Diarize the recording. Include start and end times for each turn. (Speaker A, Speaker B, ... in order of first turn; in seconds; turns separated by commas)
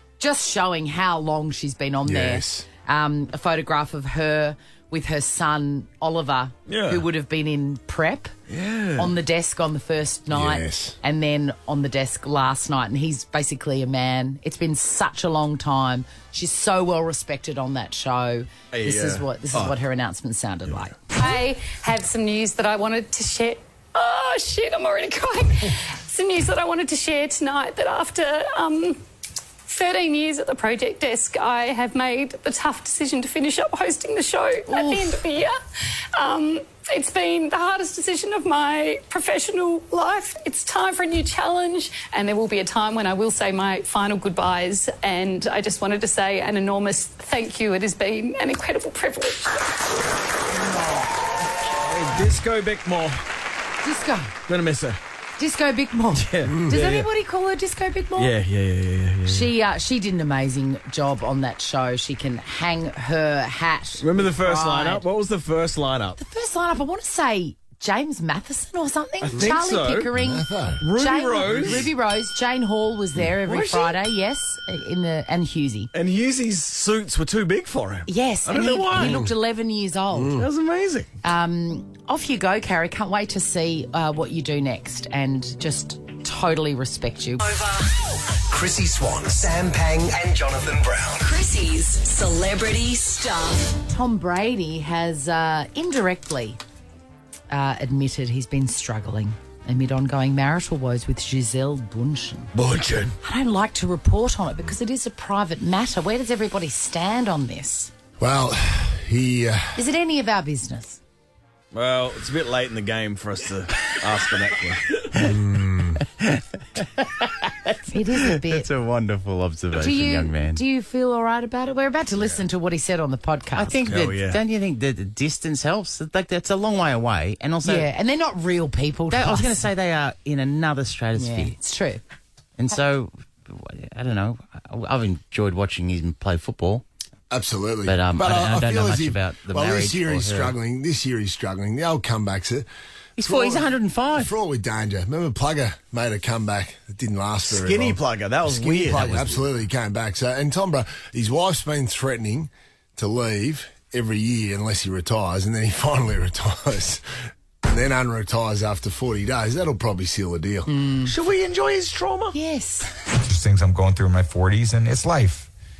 Speaker A: 0.2-8.3, Speaker B: 2.0-2.6, Speaker C: 6.7-7.0, Speaker C: 8.5-9.1, Speaker A: 8.9-21.2, Speaker B: 10.3-10.9, Speaker C: 18.7-19.7, Speaker D: 21.1-29.0, Speaker D: 29.6-35.5, Speaker A: 34.7-35.2, Speaker D: 36.2-49.7, Speaker A: 50.5-51.1, Speaker C: 51.8-53.2, Speaker A: 53.8-54.3, Speaker C: 54.5-55.0, Speaker A: 55.4-58.3, Speaker C: 56.1-57.1, Speaker C: 58.2-59.5, Speaker A: 59.3-65.0, Speaker C: 64.0-66.2, Speaker A: 66.2-75.9, Speaker C: 69.2-70.1, Speaker B: 70.1-70.9, Speaker C: 70.8-71.9, Speaker B: 71.5-71.8, Speaker C: 73.3-74.0, Speaker C: 75.9-79.2, Speaker A: 78.0-80.5, Speaker B: 78.9-79.3, Speaker B: 80.1-80.4, Speaker C: 80.4-81.1, Speaker A: 81.2-87.4, Speaker E: 87.5-87.9, Speaker F: 88.5-91.2, Speaker E: 91.2-93.8, Speaker A: 93.8-96.6, Speaker A: 97.5-102.5, Speaker C: 102.5-103.1, Speaker A: 103.2-107.9, Speaker B: 108.2-109.8, Speaker A: 109.7-111.0, Speaker C: 111.7-115.0, Speaker B: 115.2-116.0, Speaker G: 116.0-120.6, Speaker A: 117.9-118.7, Speaker A: 119.7-123.9, Speaker G: 123.5-127.9, Speaker C: 123.9-124.4, Speaker A: 127.6-129.7, Speaker G: 129.1-131.6, Speaker A: 131.2-132.0, Speaker G: 132.6-136.8, Speaker B: 137.3-142.7, Speaker G: 137.8-140.6, Speaker G: 143.2-144.3, Speaker B: 143.2-157.0, Speaker C: 147.4-149.1, Speaker G: 149.0-149.4, Speaker B: 157.6-160.7, Speaker A: 160.7-161.1, Speaker C: 161.1-162.3, Speaker A: 162.3-162.9, Speaker H: 163.2-165.5